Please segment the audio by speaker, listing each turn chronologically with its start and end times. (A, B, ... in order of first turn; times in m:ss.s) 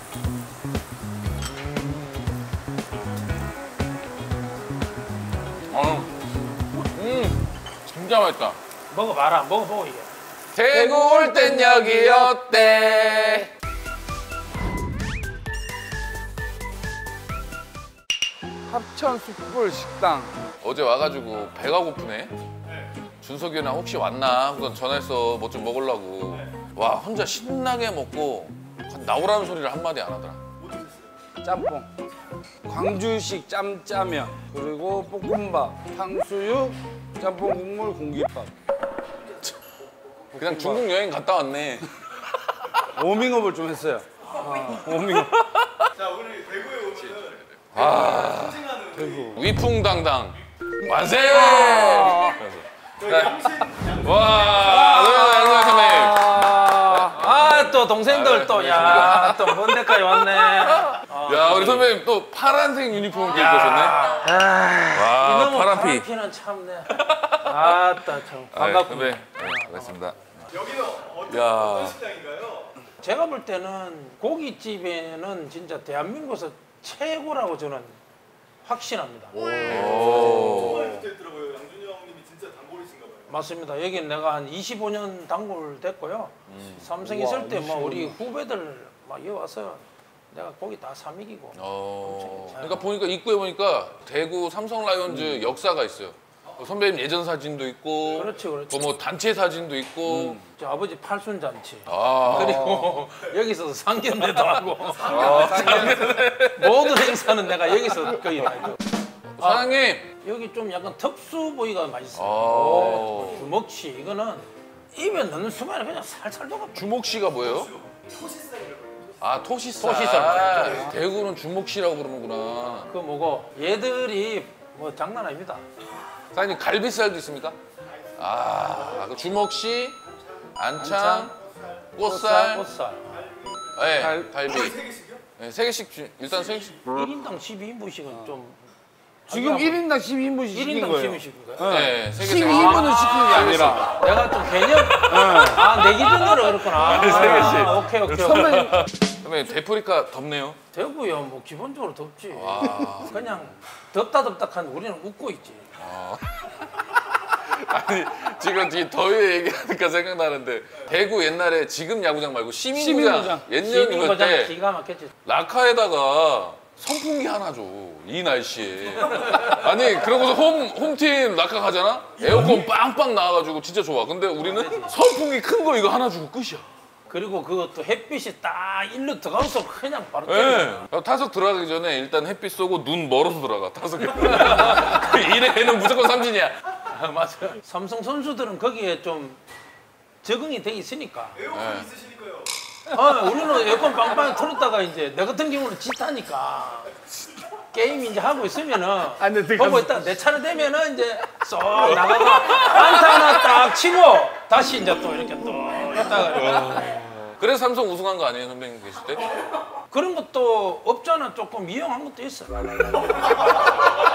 0:05.7-0:06.1 A
0:06.9-0:08.6 A
0:08.9-0:10.1 B
0:10.5-0:13.5 A
0:10.7-0:12.3 C
0:18.7-0:20.4 C
0:20.6-0:22.3 A
0:22.6-0:22.9 D
0:23.2-0:30.4 A
0:30.6-0:31.2 D
0:31.4-0:31.9 C
0:32.6-0:38.5 C
0:39.4-0:40.1 D
0:40.3-0:40.8 C
0:40.4-0:42.2 A
0:42.9-0:45.4 C
0:44.3-0:44.7 D
0:45.1-0:45.9 A
0:45.9-0:49.5 D
0:47.5-0:48.7 A
0:48.9-0:49.4 C
0:49.3-1:04.0 A
0:51.3-0:52.4 C
0:53.0-0:54.9 D
0:54.6-0:57.2 C
0:55.1-0:55.7 B
0:57.1-1:01.9 B
1:03.3-1:04.4 B
1:04.2-1:05.2 C
1:04.9-1:06.0 A
1:05.2-1:10.4 B
1:06.9-1:07.8 A
1:08.5-1:10.2 A
1:10.5-1:12.8 D
1:11.3-1:12.0 A
1:13.0-1:18.0 B
1:18.6-1:20.9 B
1:19.4-1:20.9 C
1:19.6-1:20.9 A
1:20.2-1:23.3 D
1:23.3-1:32.9 B
1:26.5-1:26.9 A
1:27.0-1:28.2 C
1:31.5-1:40.4 A
1:35.1-1:35.5 C
1:38.1-1:38.8 B
1:40.0-1:40.4 C
1:40.5-1:48.8 B
1:41.9-1:42.8 A
1:42.3-1:42.8 C
1:45.0-1:47.2 A
1:45.1-1:46.0 C
1:45.2-1:45.8 D
1:49.4-1:50.1 A
1:49.4-1:49.7 B
1:50.2-1:56.9 B
1:52.1-1:53.5 A
1:56.7-1:57.7 A
1:57.4-1:59.2 D
1:59.2-2:02.9 A
1:59.8-2:01.0 B
2:02.9-2:05.6 B
2:06.3-2:07.6 A
2:07.8-2:09.2 D
2:08.2-2:10.0 A
2:10.6-2:11.3 A
2:10.8-2:11.3 C
2:11.4-2:11.8 D
2:11.9-2:12.7 A
2:12.0-2:13.2 B
2:13.1-2:15.2 D
2:13.7-2:14.8 A
2:14.0-2:14.3 C
2:15.4-2:16.8 A
2:16.4-2:16.8 D
2:16.8-2:18.6 B
2:18.1-2:18.3 C
2:19.3-2:19.8 B
2:19.3-2:23.9 C
2:20.5-2:21.9 B
2:21.6-2:24.2 A
2:22.4-2:23.1 B
2:23.8-2:28.7 B
2:25.0-2:30.6 A
2:25.0-2:25.8 C
2:27.0-2:28.9 C
2:30.7-2:35.7 B
2:32.3-2:33.2 A
2:35.8-2:36.7 A
2:37.2-2:44.6 A
2:42.7-2:43.4 C
2:43.6-2:45.1 B
2:45.2-2:56.6 A
2:49.1-2:49.6 B
2:52.3-2:52.6 D
2:54.4-2:55.0 B
2:57.1-3:00.8 B
3:00.2-3:06.6 A
3:04.0-3:05.1 B
3:06.8-3:09.4 B
3:10.2-3:11.4 B
3:11.3-3:12.5 D
3:11.5-3:11.9 A
3:12.9-3:16.9 B
3:17.7-3:26.9 B
3:19.2-3:20.2 C
3:21.7-3:23.3 A
3:26.2-3:29.3 A
3:29.9-3:33.3 B